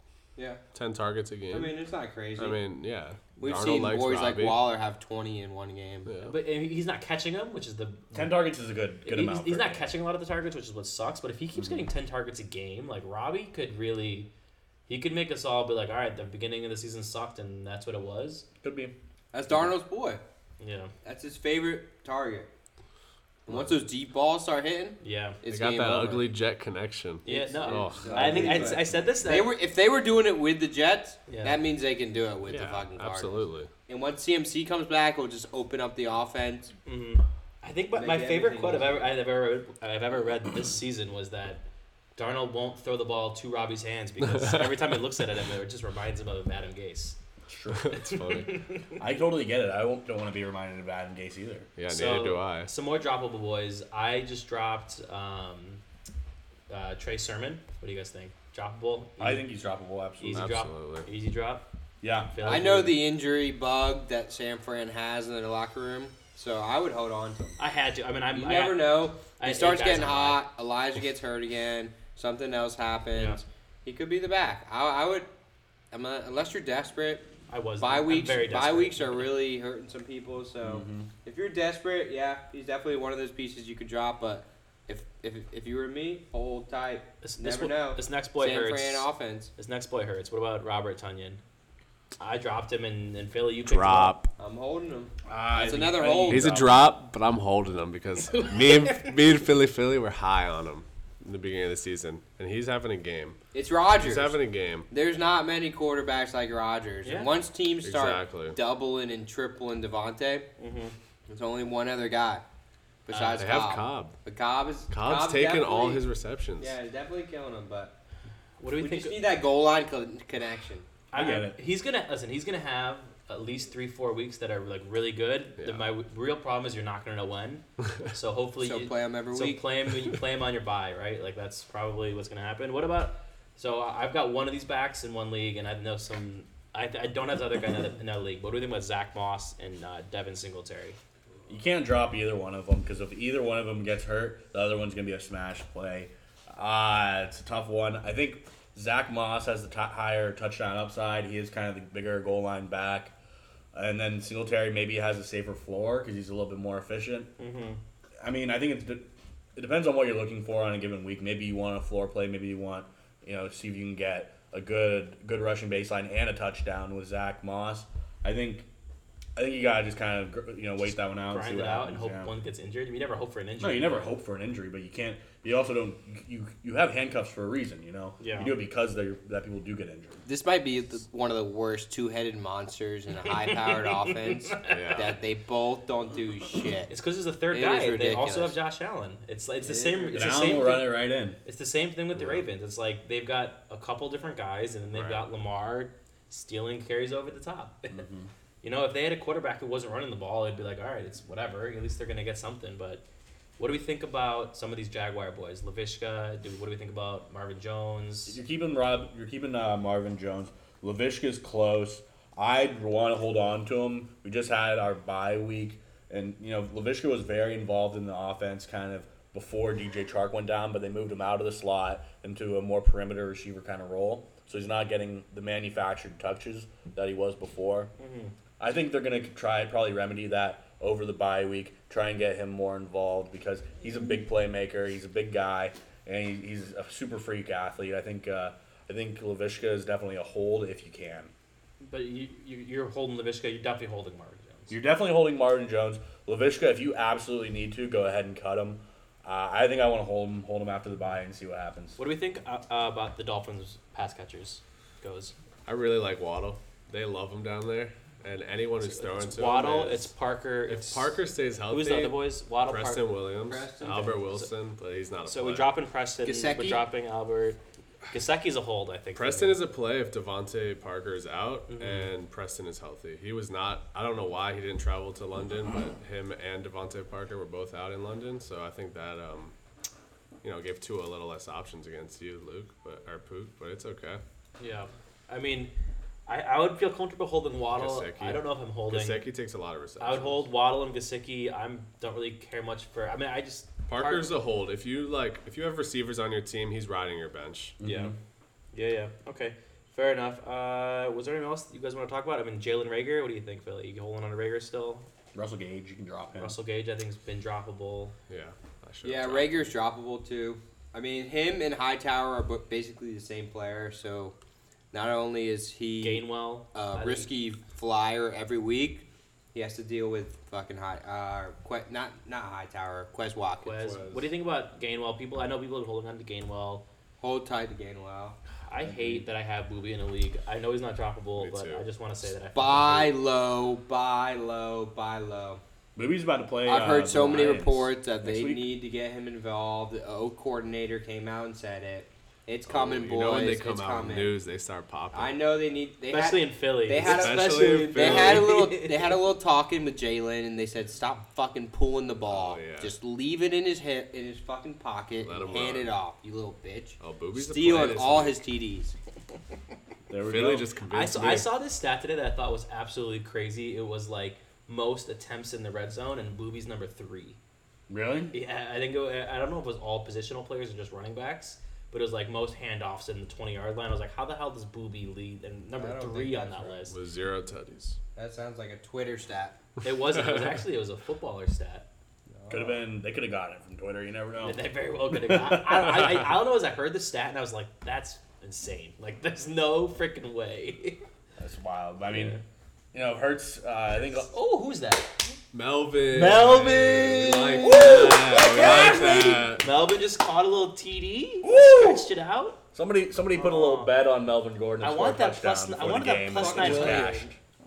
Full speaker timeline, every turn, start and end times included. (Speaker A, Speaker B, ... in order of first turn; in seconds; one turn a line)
Speaker A: 0.4-0.6
Speaker B: 0.7-1.8
Speaker A: 1.5-2.6
Speaker B: 2.4-4.6
Speaker A: 3.4-6.1
Speaker B: 6.1-6.4
Speaker C: 6.2-8.5
Speaker D: 8.1-9.9
Speaker C: 9.1-14.3
Speaker C: 14.9-18.4
Speaker D: 18.6-18.9
Speaker A: 19.3-20.2
Speaker C: 20.6-20.9
Speaker A: 21.0-22.5
Speaker A: 23.5-26.3
Speaker C: 25.0-25.4
Speaker B: 25.5-28.5
Speaker C: 27.2-29.5
Speaker A: 27.2-36.7
Speaker D: 28.0-28.9
Speaker C: 31.3-31.6
Speaker B: 32.5-33.7
Speaker C: 36.9-41.6
Speaker A: 38.0-39.1
Speaker C: 42.2-47.2
Speaker D: 47.5-48.0
Speaker B: 47.9-48.5
Speaker C: 47.9-48.9
Speaker D: 49.0-51.7
Speaker B: 51.8-52.7
Speaker C: 51.9-55.8
Speaker C: 56.7-59.5
Speaker D: 59.2-60.5
Speaker C: 60.2-61.6
Speaker B: 60.3-61.1
Speaker D: 62.0-62.6
Speaker C: 62.3-63.0
Speaker A: 62.4-67.6
Speaker C: 67.6-70.4
Speaker A: 68.3-75.3
Speaker C: 73.1-73.4
Speaker A: 75.9-77.3
Speaker C: 77.5-79.3
Speaker A: 77.8-89.5
Speaker D: 80.6-81.1
Speaker C: 87.2-91.4
Speaker C: 92.2-94.2
Speaker B: 93.7-94.3
Speaker A: 94.4-96.5
Speaker D: 95.3-96.8
Speaker B: 96.3-103.4
Speaker C: 98.3-99.1
Speaker A: 103.5-110.5
Speaker B: 103.9-104.9
Speaker C: 107.0-107.3
Speaker B: 107.8-108.6
Speaker C: 110.6-111.0
Speaker A: 111.3-112.4
Speaker A: 113.1-116.0
Speaker C: 113.1-113.4
Speaker B: 113.2-114.2
Speaker B: 114.9-116.8
Speaker A: 116.6-118.0
Speaker C: 118.6-119.2
Speaker A: 118.8-120.9
Speaker C: 121.1-141.0
Speaker D: 121.1-121.6
Speaker B: 125.6-125.9
Speaker A: 128.6-129.6
Speaker D: 141.5-153.1
Speaker D: 153.7-157.3
Speaker C: 157.4-157.8
Speaker D: 158.2-168.7
Speaker D: 169.4-172.3
Speaker C: 171.3-174.1
Speaker D: 173.6-180.2
Speaker C: 178.2-178.6
Speaker A: 180.2-186.9
Speaker C: 183.3-185.0
Speaker B: 184.7-185.2
Speaker C: 186.9-198.1
Speaker A: 187.5-188.6
Speaker A: 189.6-190.6
Speaker D: 190.1-191.4
Speaker B: 192.2-192.4
Speaker B: 194.9-195.3
Speaker D: 197.9-198.3
Speaker C: 198.6-203.0
Speaker C: 203.6-208.4
Speaker D: 208.3-227.9
Speaker C: 228.0-228.3
Speaker D: 228.6-241.3
Speaker C: 241.8-244.7
Speaker D: 244.7-252.0
Speaker C: 252.0-255.3
Speaker B: 255.6-260.1
Speaker C: 258.8-261.1
Speaker B: 260.7-265.7
Speaker C: 261.7-263.1
Speaker A: 263.4-264.2
Speaker C: 264.0-264.5
Speaker C: 265.3-267.6
Speaker A: 266.2-266.9
Speaker C: 268.1-269.6
Speaker B: 269.1-279.5
Speaker C: 271.7-272.1
Speaker B: 280.4-284.2
Speaker C: 284.6-285.7
Speaker C: 286.3-289.2
Speaker B: 287.7-290.5
Speaker C: 290.0-294.3
Speaker B: 293.9-297.8
Speaker D: 297.8-298.1
Speaker C: 297.8-298.1
Speaker C: 298.7-305.1
Speaker D: 305.3-306.6
Speaker C: 306.4-308.1
Speaker B: 308.3-309.7
Speaker A: 309.0-314.4
Speaker A: 314.9-324.0
Speaker C: 316.0-317.3
Speaker C: 323.6-326.9
Speaker B: 323.9-324.3
Speaker A: 327.2-328.4
Speaker C: 328.7-333.1
Speaker D: 328.8-329.2
Speaker B: 331.4-331.9
Speaker A: 332.6-335.6
Speaker D: 336.0-338.7
Speaker A: 336.6-344.4
Speaker B: 342.6-345.4
Speaker A: 345.1-359.0
Speaker C: 346.1-349.2
Speaker B: 347.0-348.6
Speaker B: 352.3-352.9
Speaker B: 355.2-355.9
Speaker B: 357.0-358.4
Speaker D: 360.1-360.7
Speaker B: 360.2-361.5
Speaker C: 360.9-367.4
Speaker D: 367.9-368.3
Speaker C: 368.3-376.9
Speaker A: 375.8-376.8
Speaker B: 376.9-378.0
Speaker A: 378.1-379.6
Speaker C: 379.8-381.9
Speaker A: 382.4-382.8
Speaker D: 382.5-386.2
Speaker C: 384.4-391.0
Speaker D: 391.4-392.4
Speaker C: 392.1-392.4
Speaker D: 392.9-394.3
Speaker C: 394.1-395.3
Speaker B: 395.5-399.6
Speaker C: 396.1-402.6
Speaker D: 401.4-402.1
Speaker D: 402.7-407.4
Speaker C: 403.3-403.9
Speaker C: 404.8-407.1
Speaker A: 406.3-407.3